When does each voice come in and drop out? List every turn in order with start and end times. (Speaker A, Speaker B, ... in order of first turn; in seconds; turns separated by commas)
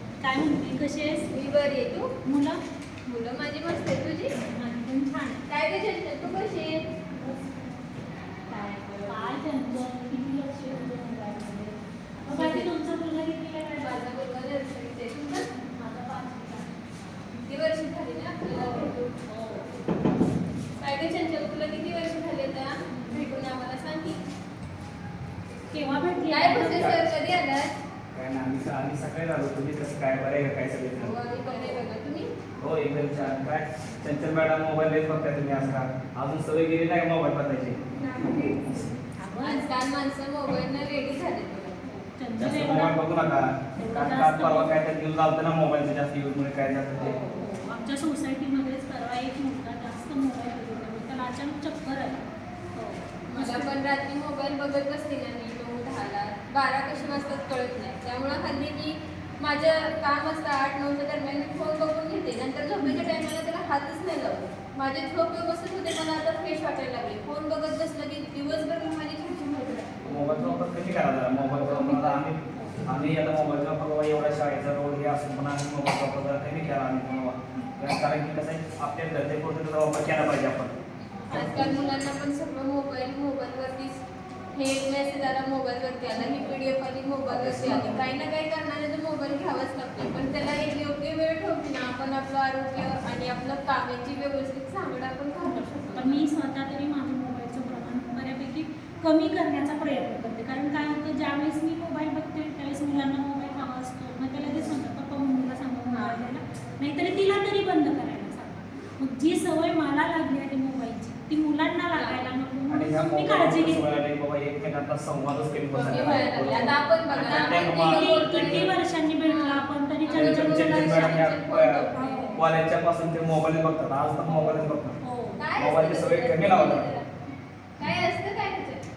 Speaker A: 0.2-1.3, Speaker B: 1.3-2.1, Speaker A: 2.2-2.6, Speaker B: 3.1-4.4, Speaker A: 4.4-5.4, Speaker B: 5.5-6.9, Speaker B: 8.5-9.3, Speaker A: 9.1-14.1, Speaker B: 12.3-12.7, Speaker B: 13.8-15.5, Speaker A: 15.5-16.7, Speaker B: 17.4-19.2, Speaker A: 18.5-19.7, Speaker B: 20.8-24.2, Speaker A: 22.9-23.2, Speaker A: 25.7-27.0, Speaker B: 26.3-27.8, Speaker C: 28.1-31.1, Speaker B: 31.0-32.3, Speaker A: 31.4-31.8, Speaker C: 32.6-37.8, Speaker B: 38.0-41.8, Speaker A: 39.2-39.7, Speaker A: 41.8-43.0, Speaker C: 42.4-47.2, Speaker A: 43.8-44.7, Speaker A: 47.0-52.2, Speaker B: 47.1-47.3, Speaker A: 52.7-53.7, Speaker B: 53.3-70.3, Speaker A: 62.8-63.1, Speaker C: 70.0-80.8, Speaker A: 70.1-70.5, Speaker A: 71.5-72.9, Speaker A: 81.2-81.9, Speaker B: 81.3-84.0, Speaker B: 84.5-96.2, Speaker A: 86.1-86.5, Speaker C: 87.3-88.1, Speaker A: 95.4-113.8, Speaker B: 105.9-106.2, Speaker B: 112.0-112.3, Speaker C: 112.7-118.7, Speaker B: 115.7-118.7, Speaker A: 115.9-116.6, Speaker A: 117.2-121.2, Speaker B: 119.3-122.5, Speaker C: 120.1-125.0, Speaker A: 122.0-122.4, Speaker A: 124.3-125.4, Speaker B: 125.4-127.1, Speaker C: 125.6-126.9, Speaker B: 127.8-128.8